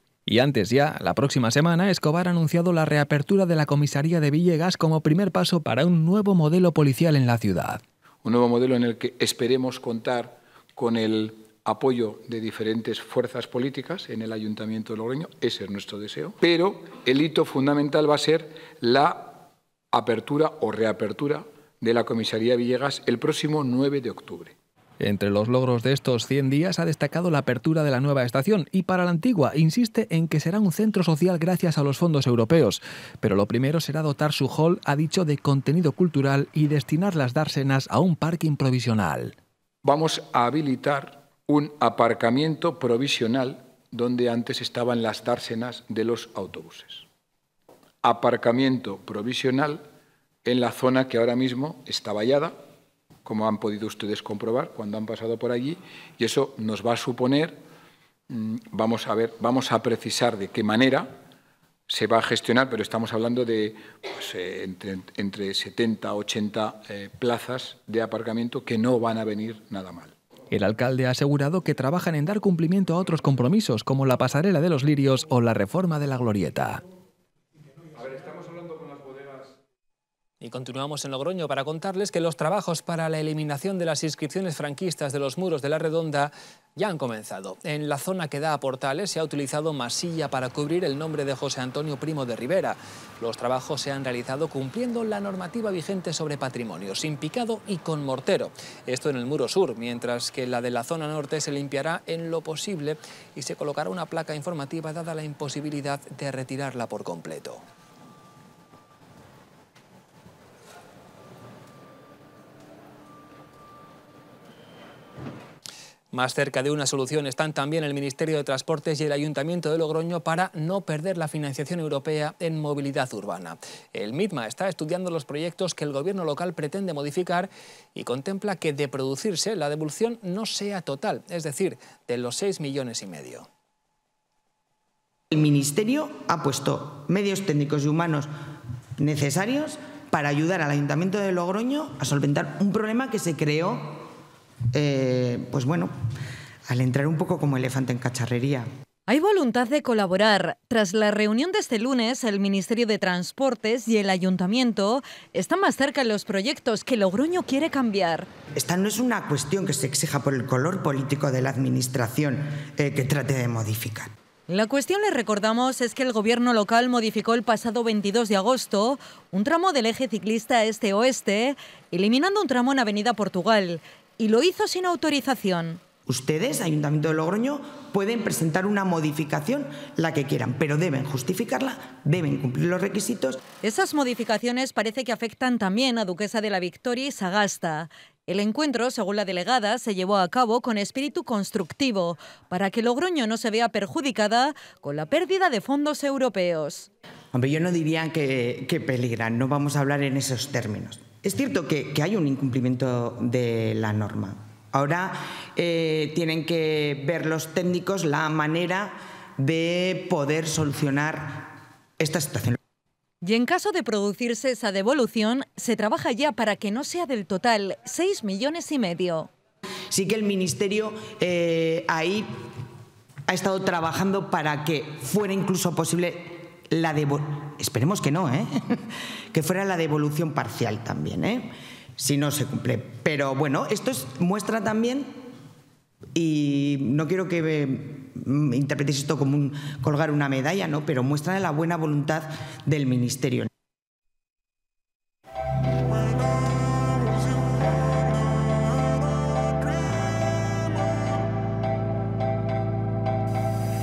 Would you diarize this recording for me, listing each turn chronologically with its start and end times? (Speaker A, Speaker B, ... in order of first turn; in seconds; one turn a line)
Speaker A: 0.3-7.8
Speaker B: 8.2-24.5
Speaker A: 25.0-39.3
Speaker B: 39.8-47.0
Speaker B: 48.0-49.8
Speaker B: 50.4-52.5
Speaker B: 53.2-57.6
Speaker B: 58.3-61.1
Speaker B: 61.9-70.1
Speaker A: 70.5-76.8
Speaker B: 78.0-79.5
Speaker A: 80.4-107.6
Speaker A: 116.1-133.5
Speaker C: 135.3-138.3
Speaker C: 139.0-144.1
Speaker C: 144.7-145.9
Speaker C: 146.7-148.7
Speaker D: 149.1-158.3
Speaker C: 158.6-164.1
Speaker D: 164.5-175.8
Speaker C: 176.1-183.4
Speaker D: 183.6-196.9
Speaker C: 197.3-212.6
Speaker D: 213.2-219.3
Speaker C: 219.9-222.3
Speaker C: 223.3-235.1
Speaker C: 236.1-243.5